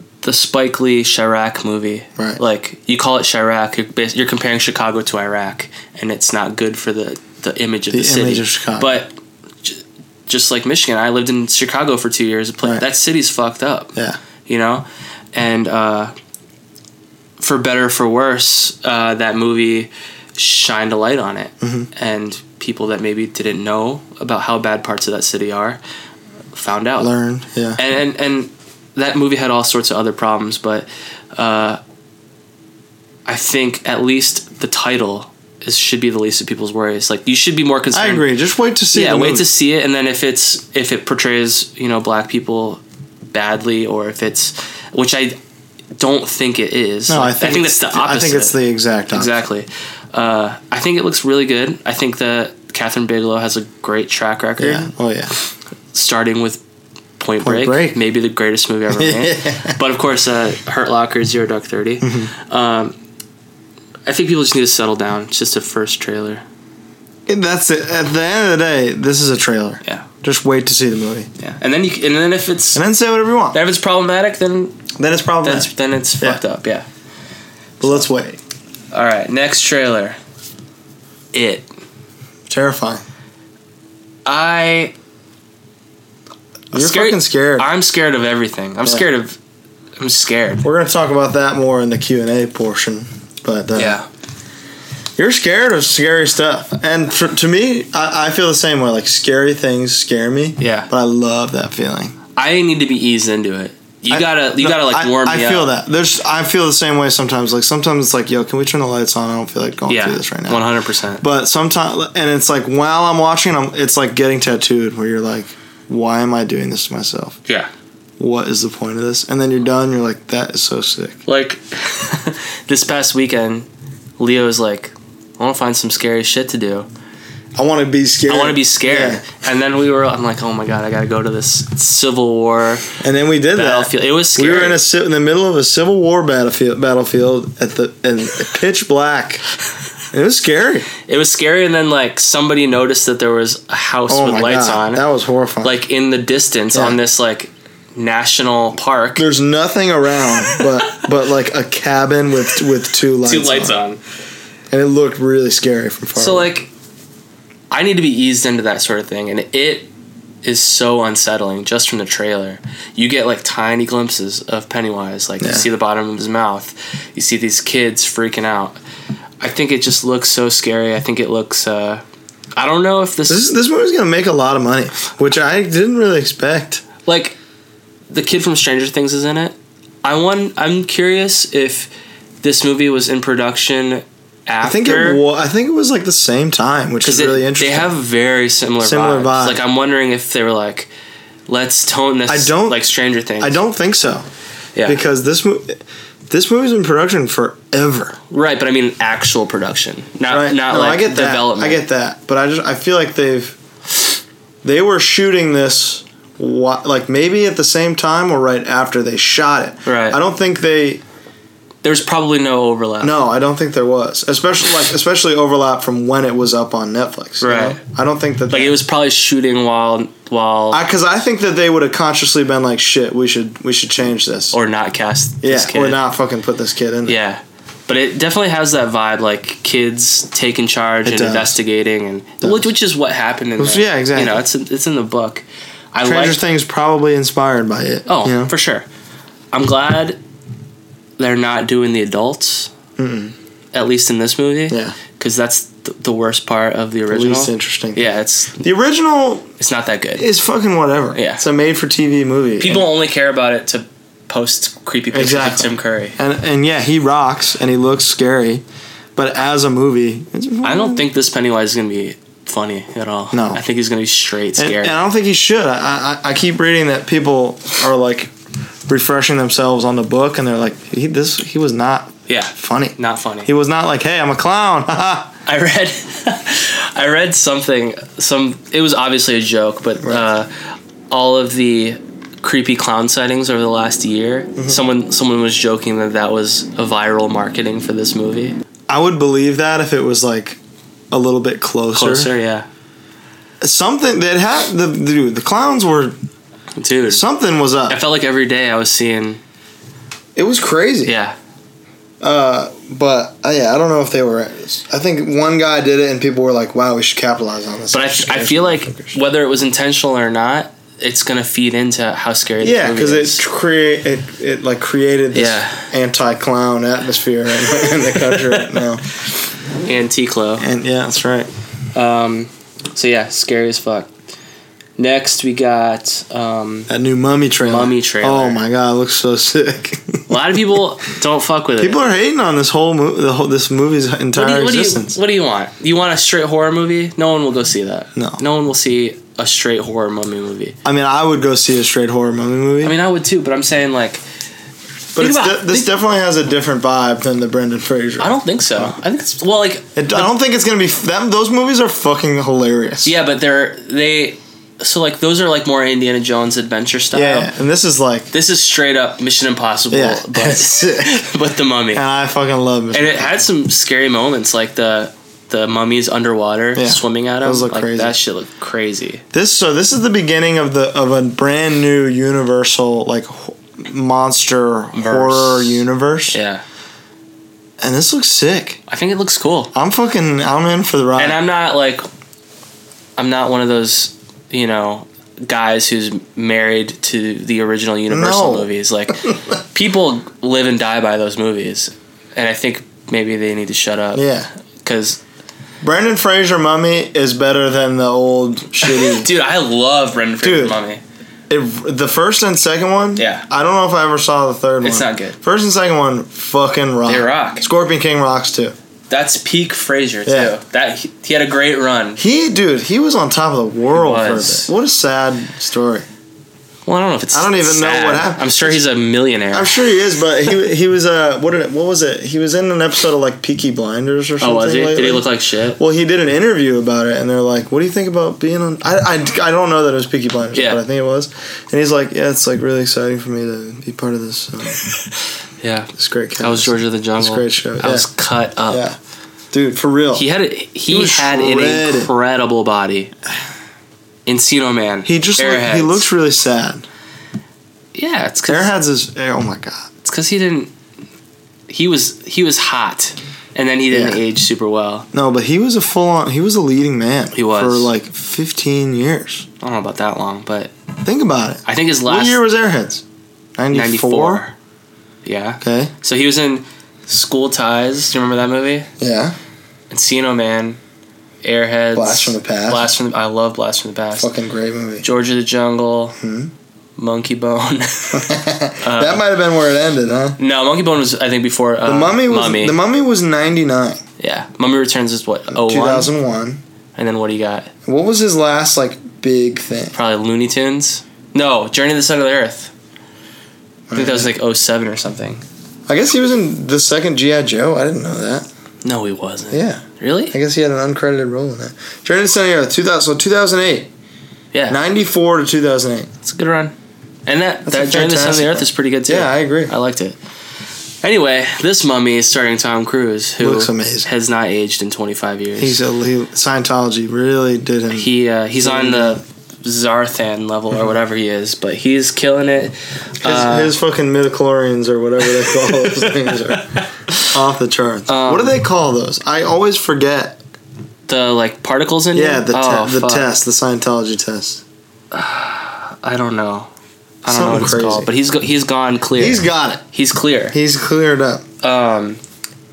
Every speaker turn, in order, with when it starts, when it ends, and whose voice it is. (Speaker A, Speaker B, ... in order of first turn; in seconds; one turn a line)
Speaker A: 0.2-9.1
Speaker B: 7.9-9.0
Speaker A: 9.6-13.9
Speaker A: 14.4-16.1
Speaker A: 17.4-25.8
Speaker B: 21.6-21.9
Speaker A: 26.5-27.1
Speaker B: 27.0-27.8
Speaker A: 27.8-31.8
Speaker A: 33.2-38.3
Speaker B: 37.9-39.5
Speaker A: 38.9-45.4
Speaker A: 46.0-48.5
Speaker B: 47.1-49.3
Speaker A: 49.1-54.9
Speaker B: 54.6-55.3
Speaker A: 55.9-56.6
Speaker A: 57.2-63.0
Speaker B: 57.4-58.0
Speaker B: 58.9-59.8
Speaker B: 62.0-62.3
Speaker A: 64.0-66.4
Speaker B: 67.3-71.3
Speaker A: 71.4-72.8
Speaker B: 72.7-73.6
Speaker A: 73.5-74.8
Speaker B: 74.9-76.4
Speaker A: 75.4-76.8
Speaker B: 77.8-78.4
Speaker A: 78.9-80.2
Speaker A: 81.3-81.7
Speaker B: 82.5-83.0
Speaker A: 84.2-84.9
Speaker B: 86.7-87.7
Speaker A: 86.7-89.4
Speaker A: 90.0-90.7
Speaker B: 90.6-94.0
Speaker A: 93.7-94.1
Speaker B: 95.2-102.1
Speaker A: 100.6-100.9
Speaker A: 102.3-105.7
Speaker B: 104.1-110.7
Speaker A: 109.9-111.2
Speaker B: 111.2-117.4
Speaker B: 118.2-121.2
Speaker A: 121.2-126.9
Speaker B: 127.5-129.2
Speaker A: 128.3-132.9
Speaker B: 133.0-139.4
Speaker A: 133.5-134.8
Speaker B: 140.1-140.9
Speaker A: 141.1-145.0
Speaker B: 144.1-145.8
Speaker A: 145.6-149.2
Speaker B: 146.7-147.0
Speaker B: 149.2-153.8
Speaker A: 153.2-154.0
Speaker B: 154.7-156.5
Speaker A: 156.2-156.7
Speaker A: 157.7-159.9
Speaker A: 160.4-168.8
Speaker B: 165.4-165.7
Speaker A: 169.4-172.0
Speaker A: 172.6-173.4
Speaker B: 173.3-176.8
Speaker A: 177.0-177.4
Speaker A: 178.1-181.9
Speaker A: 182.4-185.2
Speaker B: 184.6-187.9
Speaker A: 187.0-190.9
Speaker B: 188.8-189.6
Speaker A: 191.5-193.6
Speaker B: 192.3-192.9
Speaker B: 193.4-194.2
Speaker A: 194.8-195.0
Speaker B: 194.8-198.2
Speaker A: 198.3-201.8
Speaker B: 200.3-203.6
Speaker B: 204.6-211.0
Speaker A: 209.8-210.2
Speaker A: 211.8-213.2
Speaker B: 213.0-218.7
Speaker A: 217.4-217.8
Speaker A: 218.5-220.8
Speaker B: 220.7-224.5
Speaker A: 224.5-226.0
Speaker B: 225.4-227.2
Speaker A: 227.1-236.4
Speaker B: 231.0-231.5
Speaker B: 232.4-232.7
Speaker B: 233.6-234.4
Speaker B: 236.0-238.5
Speaker A: 238.1-238.9
Speaker A: 239.5-240.2
Speaker A: 241.2-242.7
Speaker B: 243.0-243.3
Speaker A: 243.7-248.6
Speaker B: 244.7-244.9
Speaker B: 247.1-248.1
Speaker B: 248.6-249.5
Speaker A: 249.6-250.2
Speaker B: 250.2-252.8
Speaker A: 251.1-251.4
Speaker A: 252.6-256.2
Speaker B: 255.1-258.6
Speaker B: 259.1-261.1
Speaker A: 260.6-264.9
Speaker B: 263.3-263.6
Speaker B: 264.6-268.3
Speaker B: 268.9-275.3
Speaker A: 272.3-273.5
Speaker A: 275.4-288.6
Speaker B: 280.0-280.3
Speaker B: 284.6-284.8
Speaker B: 288.9-290.6
Speaker B: 291.1-292.3
Speaker A: 291.9-292.7
Speaker B: 293.6-296.2
Speaker A: 296.8-297.2
Speaker B: 297.1-298.0
Speaker A: 297.9-299.4
Speaker B: 300.4-301.1
Speaker A: 301.0-301.3
Speaker B: 302.2-309.2
Speaker A: 307.9-313.4
Speaker B: 312.6-319.0
Speaker A: 315.3-315.9
Speaker A: 319.8-320.6
Speaker B: 320.6-321.5
Speaker A: 321.9-324.1
Speaker A: 325.0-326.9
Speaker B: 326.9-330.2
Speaker A: 327.6-328.6
Speaker A: 330.3-332.0
Speaker B: 331.8-335.1
Speaker A: 334.3-340.8
Speaker B: 338.1-338.4
Speaker B: 340.8-343.0
Speaker A: 342.8-344.2
Speaker B: 345.1-348.9
Speaker A: 345.2-345.9
Speaker A: 348.2-350.3
Speaker B: 349.9-353.1
Speaker A: 353.0-357.5
Speaker B: 357.1-358.3
Speaker A: 358.3-362.0
Speaker B: 359.9-361.3
Speaker B: 361.9-363.3
Speaker A: 362.9-369.2
Speaker B: 366.8-368.2
Speaker B: 369.3-376.4
Speaker A: 374.9-376.6
Speaker B: 377.8-378.8
Speaker A: 378.9-379.7
Speaker B: 379.7-381.4
Speaker A: 381.1-382.1
Speaker A: 383.2-394.2
Speaker B: 388.1-388.7
Speaker B: 394.1-394.5
Speaker A: 394.8-395.2
Speaker B: 395.8-399.3
Speaker A: 398.8-401.0
Speaker B: 400.4-400.8
Speaker B: 401.5-408.7
Speaker A: 403.1-403.4
Speaker A: 404.8-405.4
Speaker A: 407.1-407.6
Speaker A: 409.1-412.2
Speaker B: 410.2-410.5
Speaker B: 412.2-416.1
Speaker A: 413.9-414.7
Speaker A: 416.9-419.7
Speaker B: 417.3-418.8
Speaker B: 419.5-434.8
Speaker A: 424.4-425.8
Speaker A: 430.5-430.8
Speaker A: 435.6-438.9
Speaker B: 435.9-438.1
Speaker B: 438.7-439.0
Speaker B: 439.5-440.3
Speaker A: 440.1-443.1
Speaker B: 440.9-442.1
Speaker A: 444.2-446.0
Speaker B: 445.0-446.8
Speaker A: 447.9-448.7
Speaker B: 448.5-449.9
Speaker A: 450.0-450.7
Speaker A: 451.7-455.1
Speaker B: 453.9-454.2
Speaker B: 455.1-459.5
Speaker A: 457.3-457.9
Speaker A: 459.6-460.7
Speaker B: 461.0-463.0
Speaker A: 461.6-462.4
Speaker B: 463.6-464.4
Speaker A: 463.7-464.5
Speaker A: 465.2-468.9
Speaker B: 465.6-465.9
Speaker B: 469.0-469.4
Speaker A: 469.9-470.8
Speaker A: 471.4-474.3
Speaker B: 471.9-472.9
Speaker B: 474.2-475.0
Speaker A: 475.0-476.2
Speaker B: 476.2-476.5
Speaker A: 477.0-479.2
Speaker B: 478.1-480.4
Speaker A: 480.4-482.8
Speaker B: 481.8-484.0
Speaker A: 484.2-486.1
Speaker B: 485.5-486.6
Speaker A: 486.9-487.7
Speaker B: 487.9-489.9
Speaker A: 489.9-492.7
Speaker B: 493.9-494.3
Speaker A: 493.9-495.4
Speaker B: 495.9-498.5
Speaker A: 498.8-500.3
Speaker B: 499.5-503.9
Speaker A: 504.5-504.8
Speaker B: 504.7-506.1
Speaker A: 506.2-506.7
Speaker A: 507.2-510.2
Speaker B: 507.6-509.7
Speaker A: 511.0-515.8
Speaker B: 513.4-514.1
Speaker B: 515.6-519.2
Speaker A: 517.9-523.7
Speaker B: 523.2-530.4
Speaker A: 525.6-527.1
Speaker A: 528.1-528.5
Speaker A: 531.1-533.3
Speaker B: 532.1-534.6
Speaker A: 535.1-536.7
Speaker B: 537.2-538.1
Speaker A: 537.2-540.5
Speaker B: 539.2-539.8
Speaker B: 540.5-541.4
Speaker A: 541.6-542.2